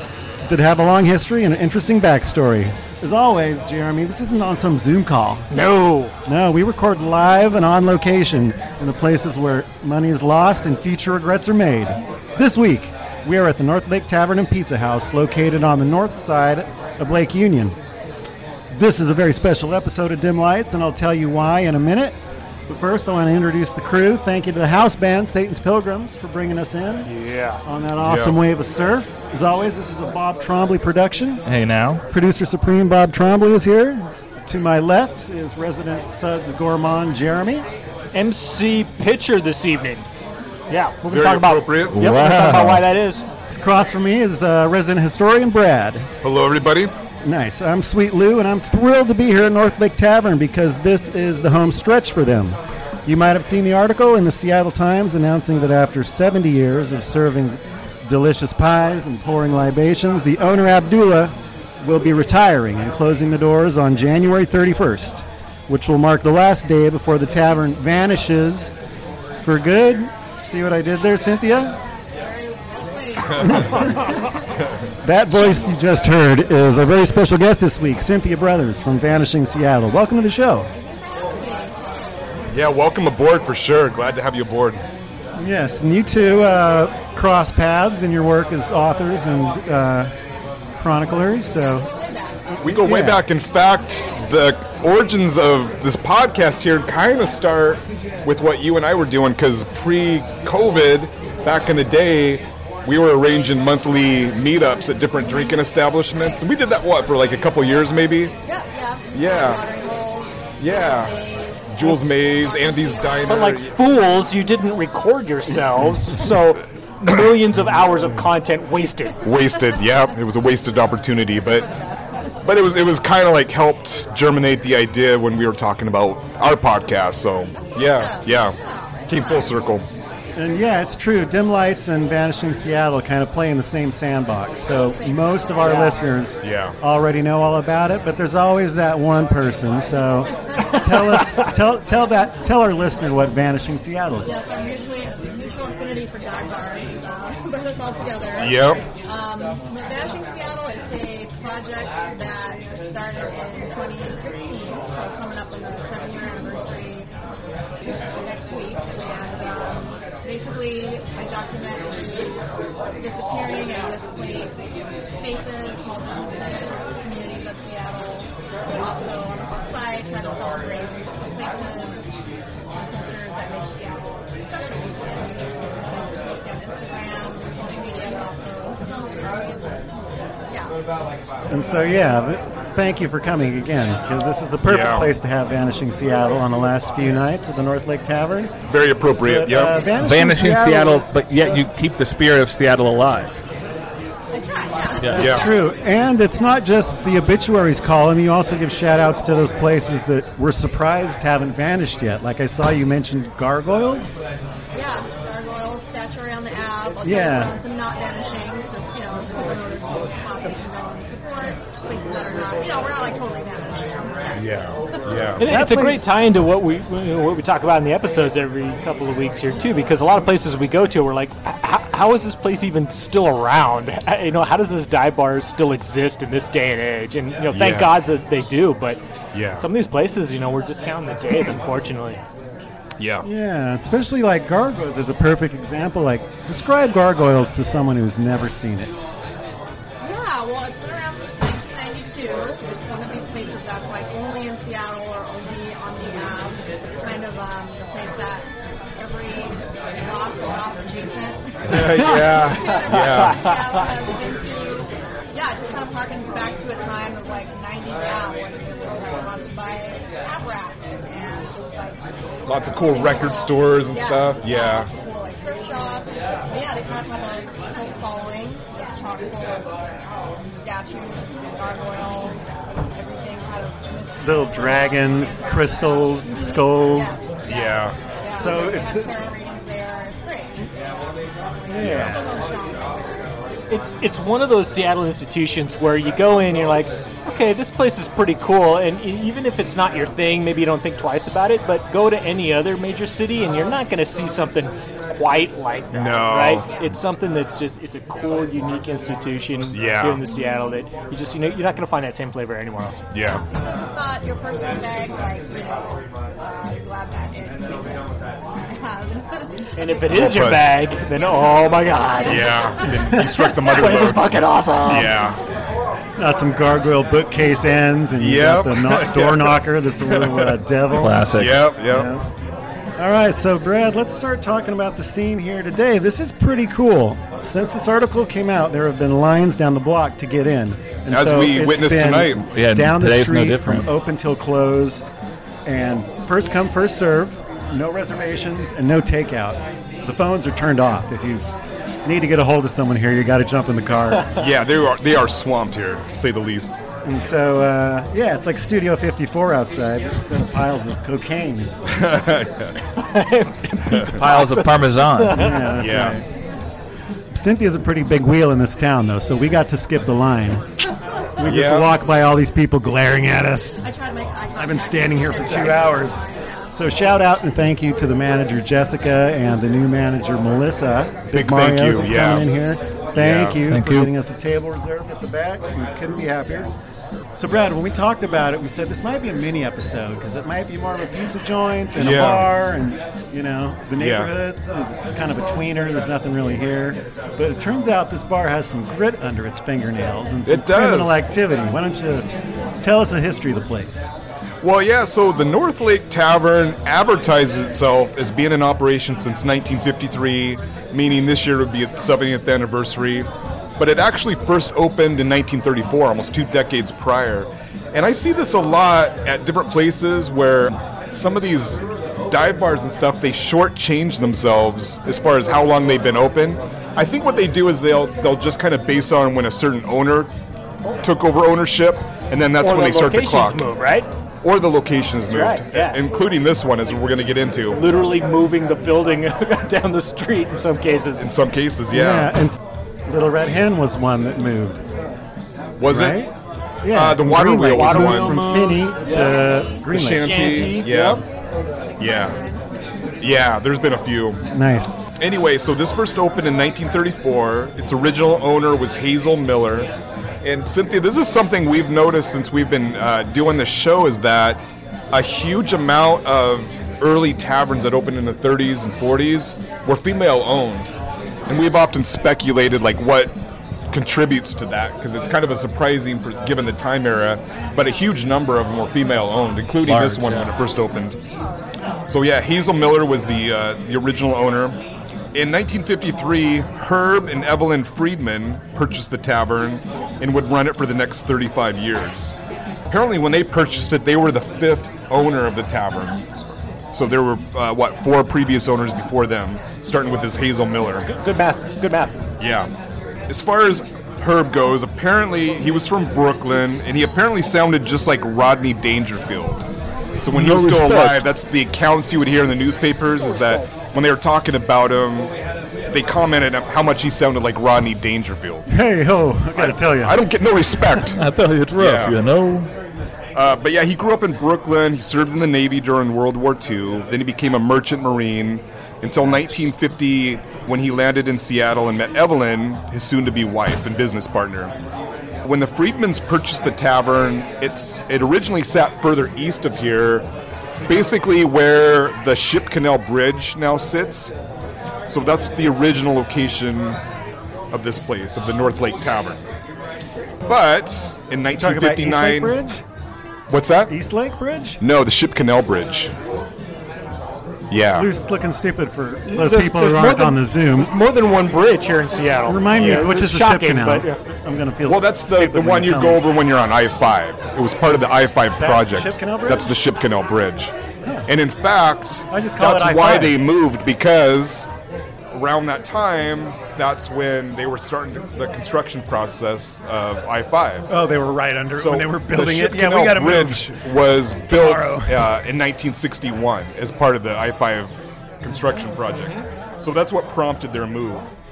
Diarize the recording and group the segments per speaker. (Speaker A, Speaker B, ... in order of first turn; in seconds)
Speaker A: 0.4-5.5, 6.2-17.8, 18.7-22.2, 22.7-27.1, 27.6-31.4, 32.1-37.6, 43.5-46.1, 47.2-68.7, 69.4-71.8, 73.4-73.9, 75.0-80.7, 85.3-90.1, 90.7-91.9, 92.5-93.2, 130.3-144.5, 181.5-188.6, 189.2-191.7, 195.0-204.1, 207.0-207.5, 215.4-216.0, 233.2-238.9, 274.2-277.2, 278.3-279.2, 281.7-282.2, 316.2-321.3, 321.8-322.3, 323.0-335.0, 335.6-341.4, 342.0-344.3, 347.0-352.1, 355.3-356.2, 357.3-360.8, 361.4-363.8, 364.6-376.7, 377.3-392.3, 392.8-394.1, 431.9-434.8, 435.9-436.3, 436.8-440.4, 444.5-445.0, 508.7-510.2, 541.5-542.8, 543.9-544.8, 547.9-550.9, 552.5-556.2, 558.6-559.7, 561.0-561.3, 562.3-563.4, 570.9-573.7, 574.4-575.2
Speaker B: 5.5-6.1, 27.0-27.6, 38.1-40.1, 40.7-43.2, 113.2-119.2, 135.6-136.0, 215.4-229.0, 229.5-232.2, 251.8-253.6, 283.7-303.0, 309.8-312.5, 313.4-315.2, 352.9-355.8, 422.6-424.1, 425.3-426.0, 427.7-431.3, 437.6-439.4, 440.2-441.2, 491.0-492.3, 549.3-554.2
Speaker C: 28.0-28.4, 41.0-42.0, 46.2-46.9, 73.3-73.9, 82.5-84.8, 92.6-108.3, 109.1-109.6, 110.6-111.1, 111.7-113.8, 119.2-121.7, 122.4-129.8, 136.4-136.8, 148.4-148.8, 184.6-185.1, 188.7-189.8, 195.1-195.5, 214.3-215.5, 227.5-227.9, 229.3-229.7, 233.0-233.3, 251.7-253.5, 262.4-264.9, 277.5-278.0, 295.9-296.7, 299.7-300.2, 303.1-303.4, 310.1-310.6, 312.2-314.2, 314.9-315.4, 318.1-320.6, 321.3-322.1, 331.1-332.4, 344.3-346.7, 351.9-352.8, 355.7-356.2, 361.4-361.9, 371.3-372.5, 373.1-373.6, 381.9-382.5, 384.0-384.3, 390.4-391.2, 394.6-420.3, 421.0-423.7, 424.4-427.8, 431.2-432.4, 435.8-436.3, 436.9-438.4, 439.9-441.2, 442.0-442.4, 443.2-444.4, 445.1-449.9, 450.4-460.9, 461.5-463.3, 463.9-471.2, 472.1-474.8, 475.3-482.4, 482.9-491.1, 492.4-492.7, 493.3-499.7, 500.2-505.4, 505.9-508.7, 509.5-511.2, 511.8-512.2, 513.3-524.7, 525.4-530.3, 530.8-534.3, 535.1-537.0, 537.7-539.4, 540.4-542.6, 543.5-543.9, 544.8-546.1, 547.7-548.1, 552.7-553.1, 554.8-560.7, 561.2-564.7, 565.3-570.9, 571.7-581.3
Speaker D: 31.4-32.0, 41.9-42.8, 189.9-193.4, 195.0-195.3, 320.9-321.7, 332.4-333.9, 354.1-355.5, 373.7-374.1, 469.8-470.5, 500.3-501.2, 511.1-512.7
Speaker E: 72.2-74.6, 80.7-82.3, 91.9-92.3, 108.5-113.1, 121.5-122.4, 127.7-129.6, 134.6-136.3, 144.2-157.1, 158.1-162.4, 163.0-164.6, 165.1-172.1, 172.7-179.9, 180.5-180.7, 194.3-195.5, 204.7-214.4, 240.0-269.8, 270.5-280.7, 281.7-283.0, 296.7-296.9, 303.6-310.4, 311.2-313.3, 363.8-367.0, 439.1-439.8, 442.0-442.6